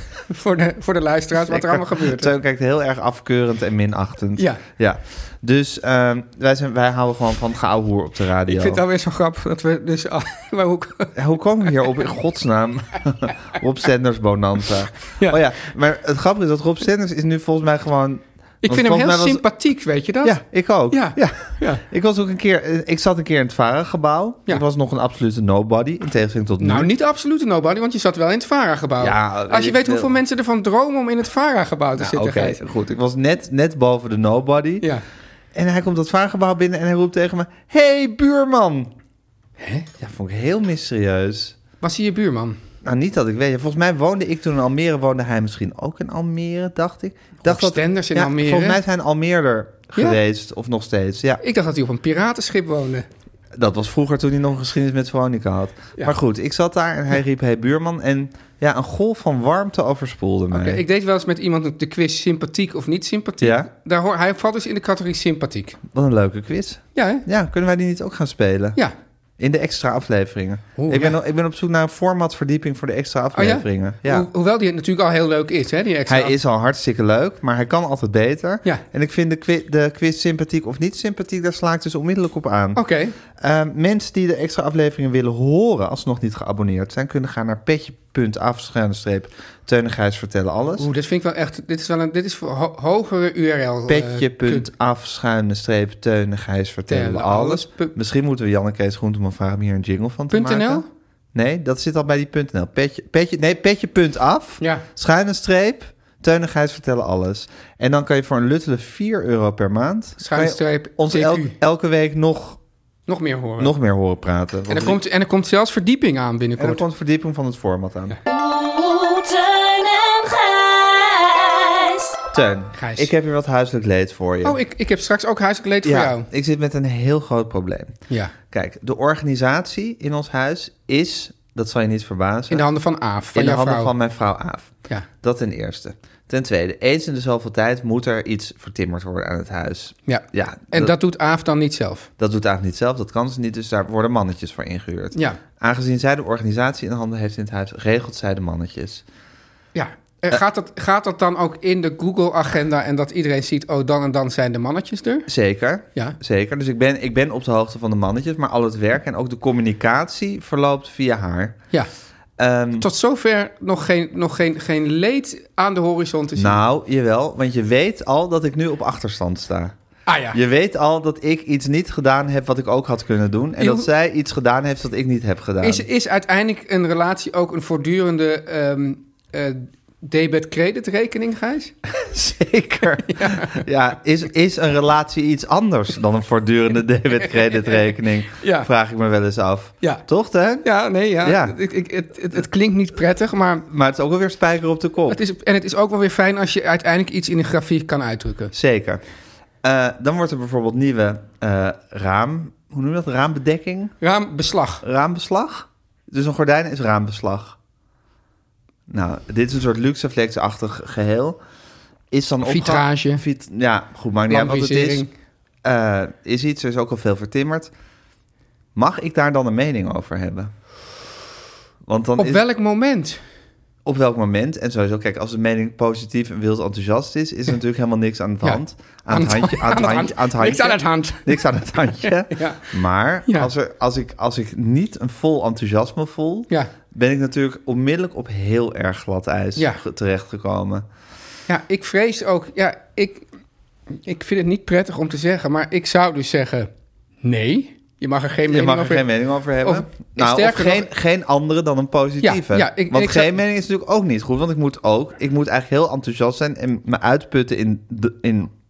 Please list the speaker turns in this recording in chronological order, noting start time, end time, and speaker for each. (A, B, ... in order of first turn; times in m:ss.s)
0:00.3-0:02.3 A
0:01.3-0:08.8 B
0:04.4-0:04.6 A
0:08.5-0:11.1 A
0:11.1-0:19.4 B
0:18.6-0:20.4 A
0:20.2-0:26.9 B
0:20.9-0:21.8 A
0:26.6-0:32.6 A
0:29.0-0:30.1 B
0:32.0-0:34.9 B
0:35.5-0:38.9 B
0:39.6-0:39.9 A
0:40.0-0:41.6 B
0:41.8-0:42.6 A
0:42.8-0:51.4 B
0:47.4-0:48.8 A
0:51.4-0:53.1 A
0:53.5-1:00.8 B
1:00.5-1:05.8 A
1:03.4-1:03.7 B
1:05.9-1:08.8 B
1:06.9-1:07.2 A
1:09.4-1:14.3 B
1:10.8-1:11.2 A
1:13.3-1:16.3 A
1:16.1-1:22.8 B
1:22.7-1:23.2 A
1:23.3-1:30.9 B
1:30.8-1:34.7 A
1:33.9-1:52.6 B
1:36.9-1:37.9 A
1:40.3-1:40.9 A
1:44.6-1:44.8 A
1:50.2-1:51.5 A
1:53.1-1:53.7 A
1:53.6-1:55.0 B
1:54.7-1:56.8 A
1:56.6-1:58.2 B
1:58.2-2:02.2 C
2:02.3-2:04.6 B
2:02.8-2:03.1 A
2:04.4-2:06.3 A
2:05.8-2:08.0 B
2:08.5-2:12.6 B
2:12.5-2:13.9 A
2:13.3-2:20.9 B
2:20.1-2:22.1 A
2:22.2-2:29.0 B
2:25.1-2:25.4 A
2:29.7-2:35.3 A
2:35.3-2:41.6 B
2:42.4-2:42.9 B
2:42.8-2:46.6 A
2:46.4-2:49.7 B
2:50.1-2:50.4 A
2:50.3-2:55.8 B
2:53.6-2:53.9 A
2:55.6-3:01.7 A
3:01.9-3:10.6 B
3:03.1-3:03.6 A
3:07.2-3:08.7 A
3:10.6-3:13.6 A
3:11.2-3:11.6 B
3:13.7-3:15.2 B
3:15.1-3:18.5 A
3:18.5-3:19.0 B
3:19.6-3:23.9 B
3:24.0-3:24.8 A
3:24.8-3:27.6 B
3:28.9-3:31.4 B
3:32.1-3:35.1 B
3:32.4-3:33.2 A
3:34.3-3:35.1 A
3:35.6-3:37.7 B
3:38.7-3:40.5 B
3:41.8-3:42.4 B
3:42.2-3:43.2 A
3:43.8-4:00.8 B
3:48.4-3:51.4 A
3:52.0-3:52.7 A
3:59.6-3:59.8 A
4:01.5-4:03.2 A
4:04.0-4:06.7 A
4:07.2-4:09.1 A
4:08.5-4:18.5 B
4:09.6-4:10.9 A
4:12.2-4:13.3 A